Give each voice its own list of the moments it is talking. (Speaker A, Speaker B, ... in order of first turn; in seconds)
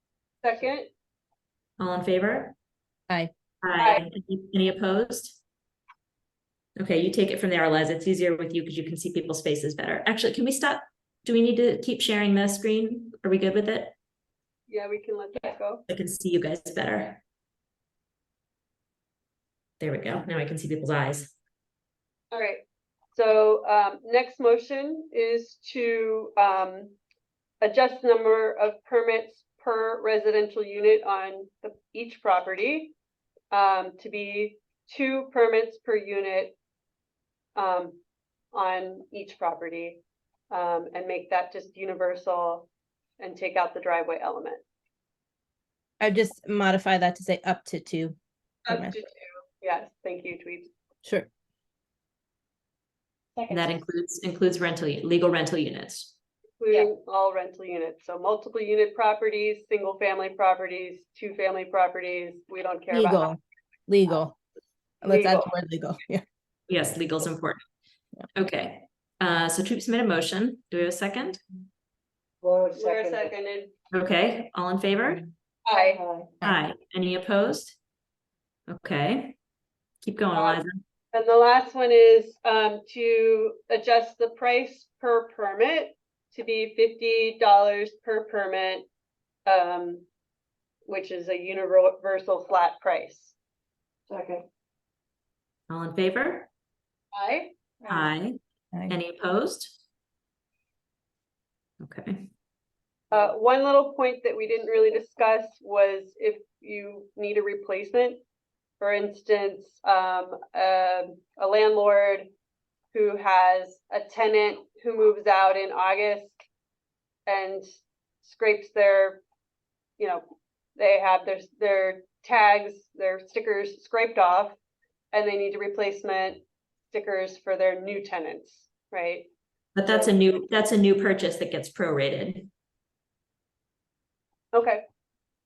Speaker A: 0.4-0.9, 3.8-4.0, 14.7-15.8, 22.3-22.6, 23.1-26.9, 27.6-32.9, 33.5-36.5, 37.5-38.0, 38.5-42.7, 43.2-44.6, 48.6-50.7, 56.6-63.3, 65.0-65.5, 72.7-73.7, 75.7-76.0, 80.3-88.8, 89.5-90.0, 90.8-93.3, 97.1-97.5, 103.1-108.2, 108.8-112.3, 112.9-116.3, 117.3-117.7, 118.2-119.2, 120.0-120.2, 120.8-124.5, 125.1-129.3, 129.8-130.2, 134.5-134.8
Speaker B: 1.8-2.5, 3.6-5.4, 6.8-13.9, 15.9-17.2, 19.8-21.3, 53.5-56.1, 66.7-67.6, 68.3-71.4, 73.9-75.2, 76.4-77.8, 78.7-79.3, 80.0-80.8, 95.7-96.5, 97.9-98.4, 98.9-99.8, 101.8-102.3, 129.7-132.5
Speaker C: 46.0-48.1, 48.7-49.0, 62.9-64.3, 65.0-66.2
Speaker D: 53.4-53.8, 72.4-73.0, 75.7-76.3, 94.1-94.4